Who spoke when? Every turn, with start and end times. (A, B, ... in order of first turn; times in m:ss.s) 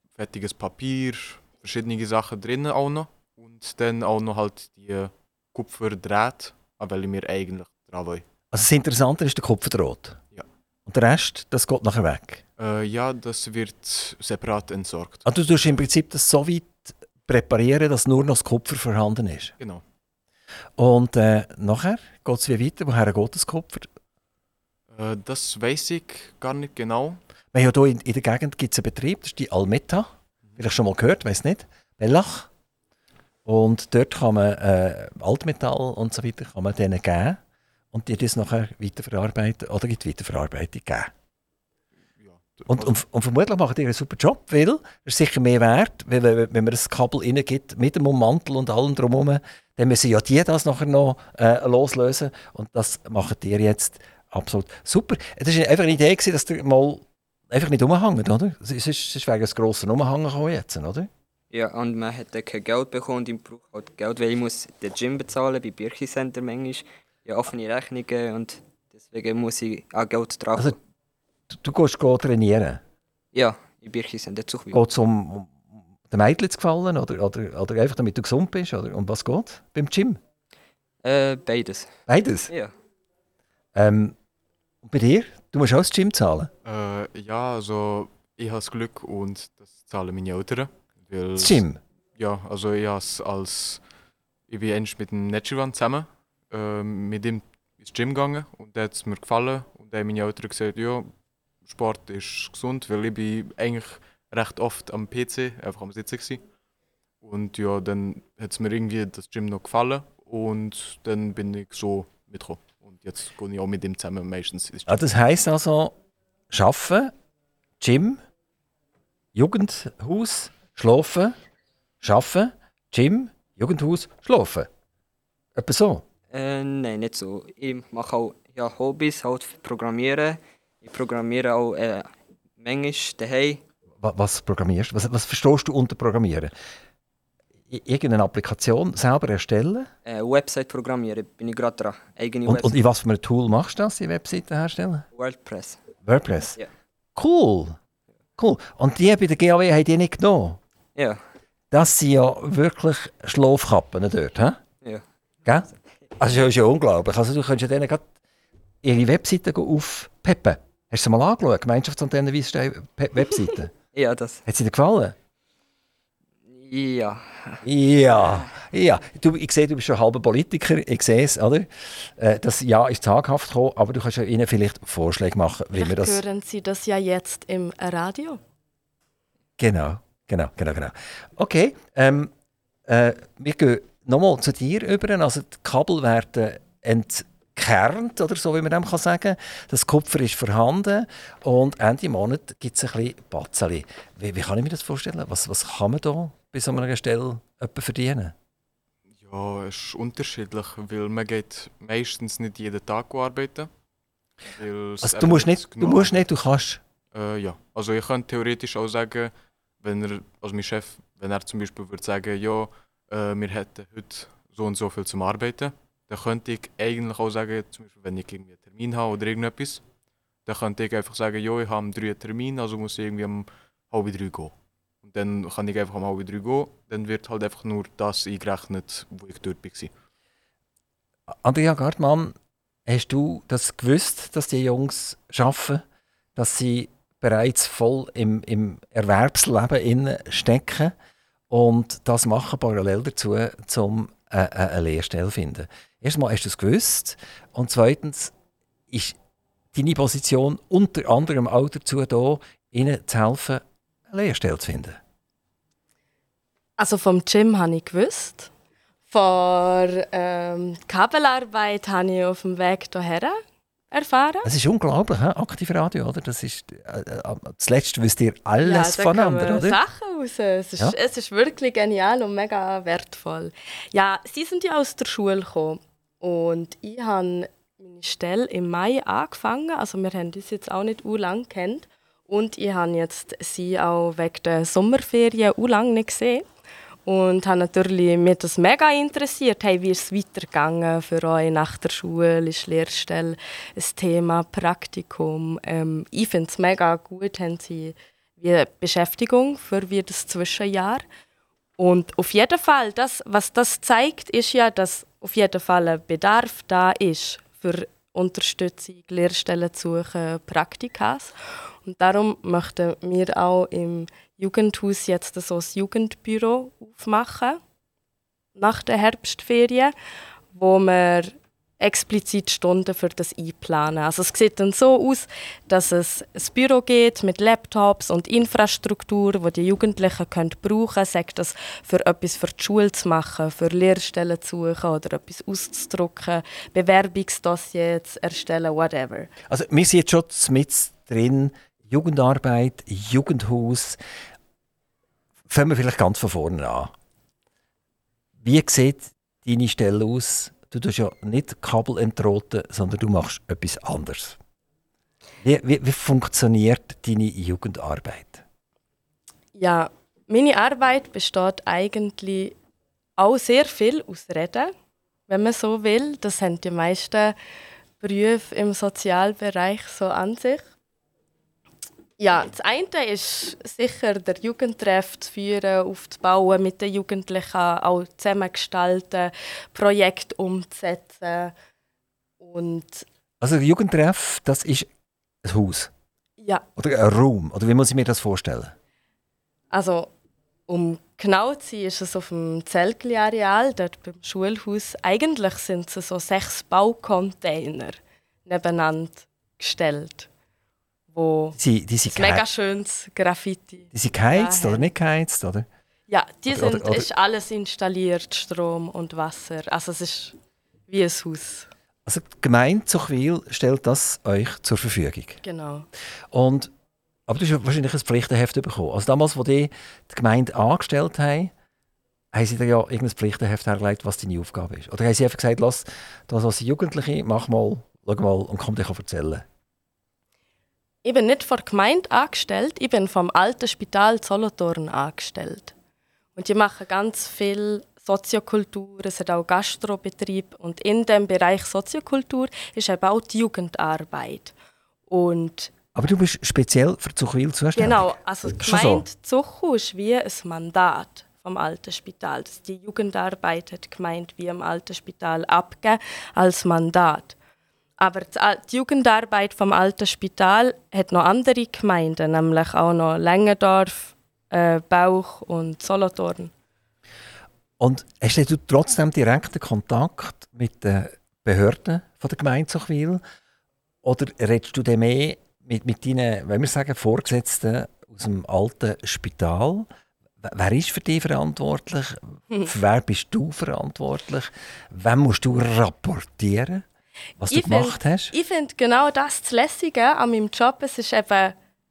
0:00.1-0:08.2 A
0:08.5-0:10.2 B
0:10.8-0:12.4 B
0:12.6-0:15.3 A
0:15.2-0:19.5 B
0:20.8-0:23.9 B
0:24.9-0:27.2 A
0:27.5-0:32.5 B
0:33.4-0:37.4 B
0:37.9-0:41.1 B
0:42.2-0:42.9 A
0:42.7-1:01.1 B
1:01.5-1:10.8 C
1:11.5-1:12.8 B
1:13.3-1:14.8 C
1:14.7-1:20.2 B
1:21.0-1:21.9 C
1:22.1-1:22.5 B
1:23.7-1:24.2 B
1:24.8-1:26.5 B
1:26.6-1:31.6 A
1:31.4-1:31.8 B
1:32.1-1:33.8 A
1:34.5-1:41.1 A
1:41.6-1:46.4 A
1:47.2-1:55.0 A
1:54.9-1:56.0 B
1:56.5-1:57.1 B
1:57.8-1:58.2 B
1:59.3-2:01.3 B
2:02.0-2:04.7 B
2:05.6-2:06.0 B
2:06.3-2:13.6 C
2:14.0-2:16.5 B
2:17.7-2:19.9 B
2:20.0-2:22.7 C
2:22.4-2:25.0 B
2:25.1-2:25.8 C
2:26.0-2:26.6 B
2:27.1-2:27.8 B
2:28.4-2:30.6 B
2:31.0-2:31.2 C
2:31.7-2:34.6 B
2:35.4-2:38.0 B
2:38.8-2:43.7 B
2:43.9-2:44.4 C
2:44.4-2:45.1 B
2:46.5-2:47.6 C
2:47.6-2:56.2 B
2:55.8-2:58.4 D
2:59.6-3:02.3 B
3:02.8-3:18.3 B
3:19.2-3:23.7 A
3:24.5-3:26.2 A
3:25.0-3:26.8 B
3:27.1-3:39.8 A
3:40.4-3:49.9 A
3:51.4-3:52.3 B
3:52.8-3:55.8 B
3:56.4-4:00.9 B
4:01.5-4:08.3 B
4:08.9-4:09.2 B
4:09.7-4:15.0 B
4:16.8-4:18.5 D
4:19.1-4:24.5 D
4:24.4-4:29.8 B
4:28.6-4:46.4 D
4:47.0-5:01.0 D
5:01.8-5:11.3 D
5:11.8-5:17.6 D
5:18.6-5:19.9 D
5:20.5-5:39.3 D
5:39.5-5:44.0 B
5:45.5-5:46.9 B
5:48.4-5:54.4 B
5:55.4-5:58.4 B
5:59.5-6:02.6 D
6:03.2-6:04.7 D
6:05.3-6:07.4 D
6:08.0-6:10.7 D
6:12.2-6:21.5 D
6:22.4-6:23.0 D
6:23.4-6:24.9 B
6:25.4-6:25.9 B
6:26.4-6:26.6 D
6:26.8-6:28.7 B
6:29.7-6:30.1 D
6:30.7-6:40.3 D
6:41.1-6:41.6 D
6:41.6-6:42.4 B
6:42.1-6:44.8 D
6:43.9-6:45.7 B
6:46.1-6:50.4 D
6:46.5-6:47.1 B
6:50.9-6:51.7 D
6:52.0-6:55.4 B
6:55.4-6:55.9 D
6:56.3-6:56.7 B
6:57.3-7:01.5 B
7:02.3-7:09.4 B
7:11.0-7:15.7 D
7:16.4-7:24.5 D
7:25.1-7:25.7 D
7:25.9-7:29.0 B
7:27.8-7:37.4 D
7:38.0-7:46.5 D
7:47.8-7:53.2 B
7:54.0-7:59.9 B
8:00.4-8:06.8 B
8:07.4-8:08.3 B
8:07.5-8:11.6 D